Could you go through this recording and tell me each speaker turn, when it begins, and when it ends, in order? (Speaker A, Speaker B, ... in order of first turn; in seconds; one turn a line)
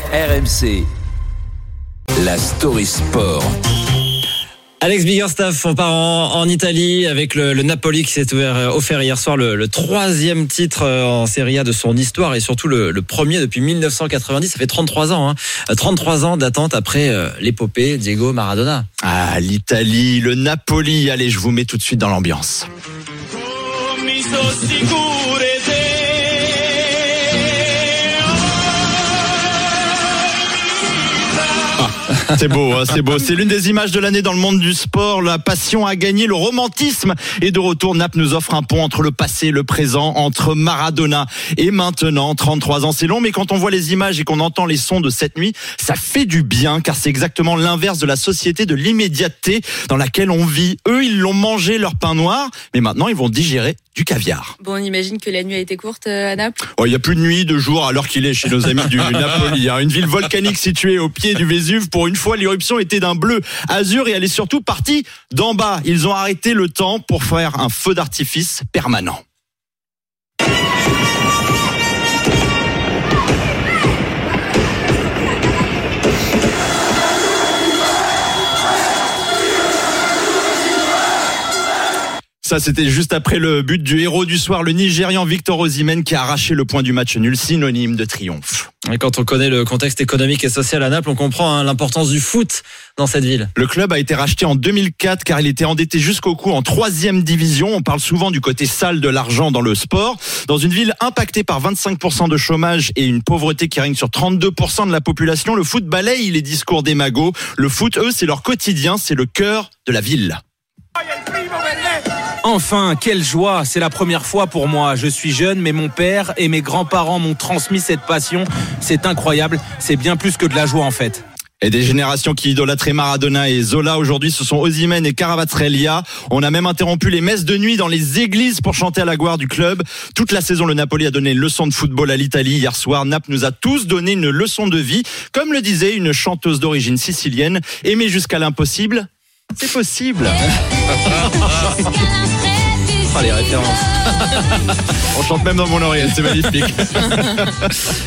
Speaker A: 0.1-0.9
Speaker A: 2.2-3.5
Speaker B: 4.8-18.9
Speaker C: 19.0-22.7
Speaker D: 24.0-26.0
Speaker C: 32.2-54.5
Speaker E: 54.6-56.6
Speaker C: 56.7-69.2
Speaker C: 82.4-88.7
Speaker B: 88.9-93.5
Speaker C: 93.5-110.4
Speaker D: 112.4-121.2
Speaker C: 121.6-140.4
Speaker B: 143.0-144.7
Speaker C: 145.1-147.7